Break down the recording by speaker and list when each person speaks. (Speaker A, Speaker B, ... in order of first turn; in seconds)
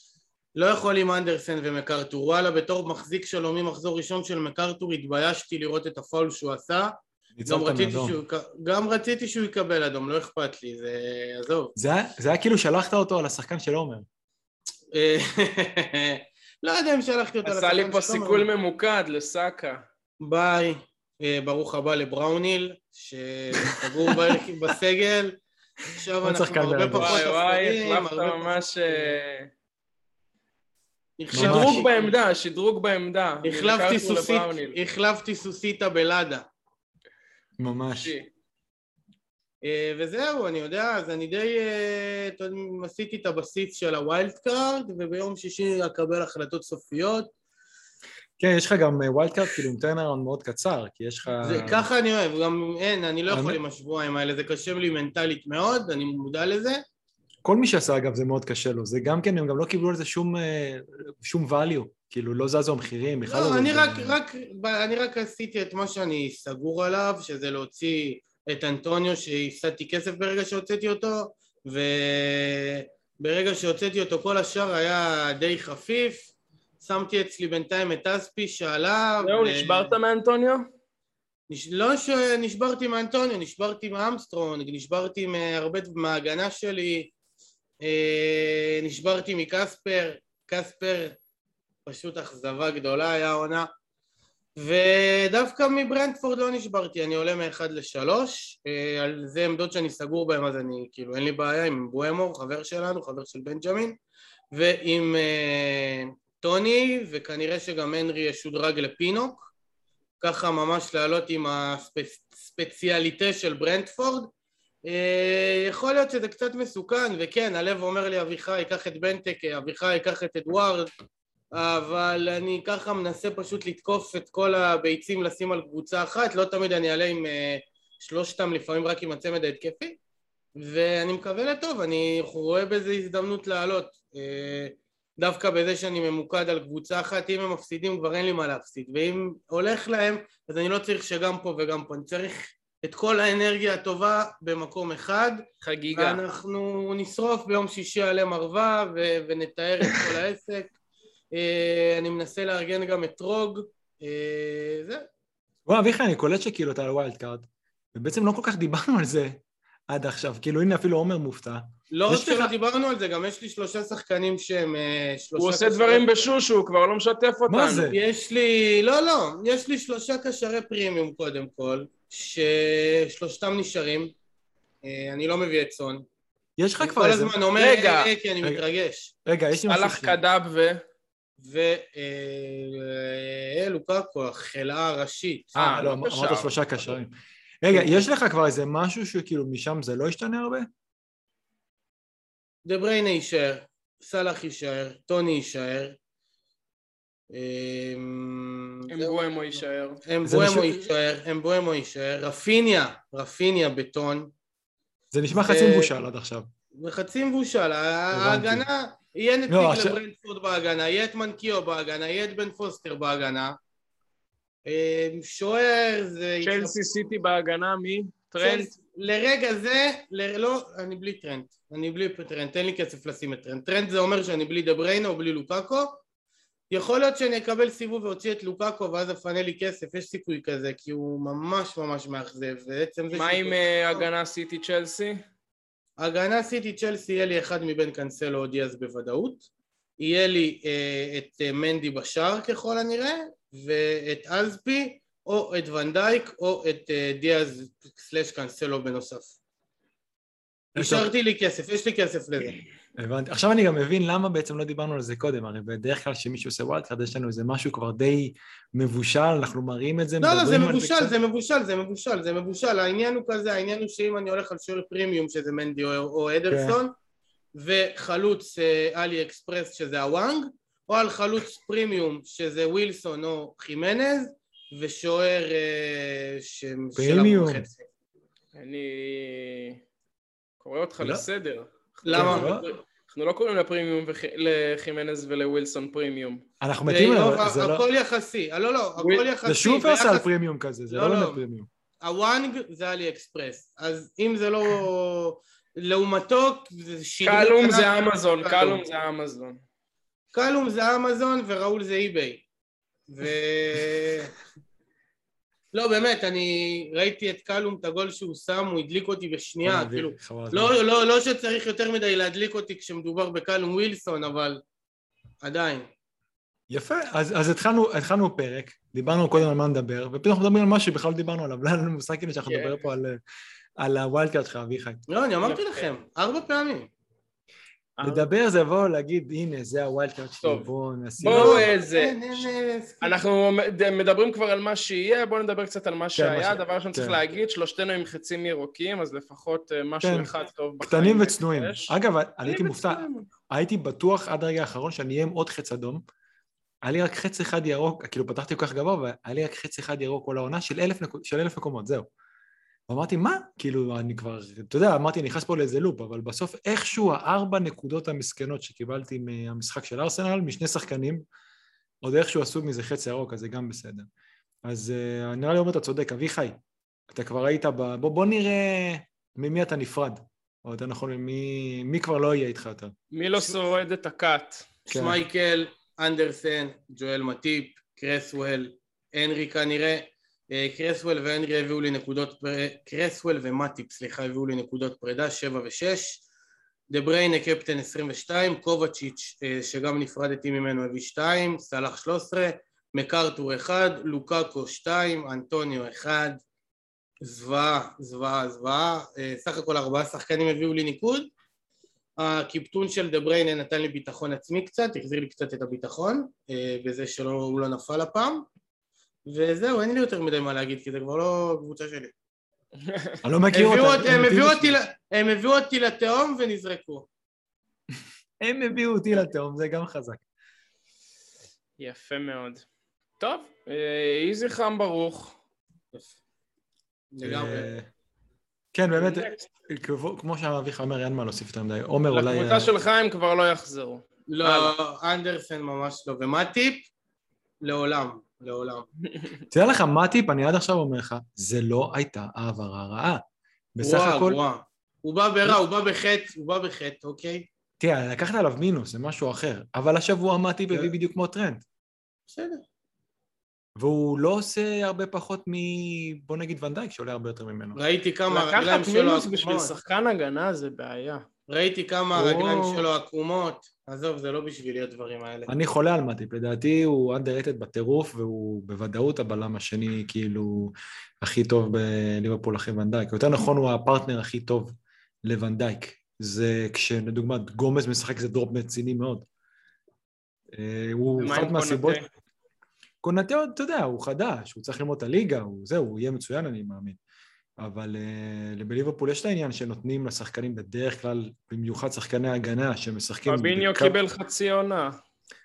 Speaker A: 0.6-6.9, 7.5-11.7, 14.9-18.5, 20.2-29.2, 31.2-32.1, 33.4-36.4, 39.6-47.3, 51.4-56.8, 63.2-79.9, 81.5-87.1, 87.8-91.2, 91.9-93.7, 94.6-104.0, 104.5-109.5, 110.2-114.3, 114.9-120.9, 121.5-130.0, 130.6-150.7, 151.3-155.1, 161.9-166.1, 167.9-174.1, 174.8-176.1, 176.8-179.1, 181.4-185.5, 187.7-188.0, 192.7-196.0, 197.3-199.2, 200.1-204.3, 205.4-205.9, 206.8-213.6, 214.7-216.8, 218.4-226.0, 226.7-234.1, 236.0-239.5, 240.0-249.3, 250.8-252.6, 260.2-266.9, 267.6-277.8, 282.1-282.7, 286.9-290.3, 290.9-291.4, 292.0-298.8, 300.3-302.4, 303.1-304.3, 305.7-314.6, 315.4-315.9, 325.1-326.9, 331.3-333.2, 374.9-386.2, 386.9-396.4, 397.2-401.3, 402.2-408.5, 409.3-412.1, 413.5-417.1, 427.1-427.7, 434.3-436.9, 437.6-438.9, 443.8-447.4, 452.3-452.6, 457.8-459.7, 461.5-465.5
Speaker B: 7.4-8.2, 11.8-14.1, 23.7-24.4, 26.2-27.2, 31.3-31.8, 37.6-38.1, 48.4-51.9, 53.3-53.6, 57.5-64.2, 155.7-162.5, 167.5-168.0, 176.6-177.3, 179.2-180.2, 185.6-190.7, 200.2-200.9, 205.1-206.5, 208.1-208.7, 209.5-210.0, 250.8-251.1, 253.0-261.1, 266.5-266.8, 277.0-277.7, 281.0-281.3, 282.1-282.7, 286.6-287.8, 289.4-291.7, 309.6-310.8, 316.7-323.2, 323.8-325.0, 328.0-331.7, 336.2-337.2, 340.0-340.3, 340.8-346.0, 346.8-352.1, 352.9-361.2, 362.0-364.1, 364.7-366.6, 367.1-372.9, 374.9-375.2, 413.2-414.8, 418.0-420.2, 427.2-427.9, 428.7-432.7, 439.5-443.2, 443.8-444.4, 447.8-451.6, 453.8-457.8, 462.1-462.9, 465.5-474.7, 475.2-479.3, 480.5-482.0, 483.0-487.0, 487.6-494.0
Speaker C: 17.4-19.8, 27.0-29.5, 31.4-34.8, 37.9-38.3, 79.2-80.7, 145.6-146.2, 165.4-167.9, 177.6-178.1, 179.7-180.8, 185.6-186.5, 198.9-200.0, 216.4-218.7, 233.1-235.2, 278.6-279.8, 280.6-286.4, 289.0-289.3, 297.2-299.6, 322.4-322.9, 325.4-325.9, 328.0-328.3, 330.4-330.7, 331.2-332.2, 333.0-341.9, 342.4-343.3, 373.1-374.7, 412.8-413.2, 421.8-422.6, 423.2-425.4, 428.9-429.4, 432.1-434.8, 458.3-461.2, 481.2-482.1, 493.3-495.0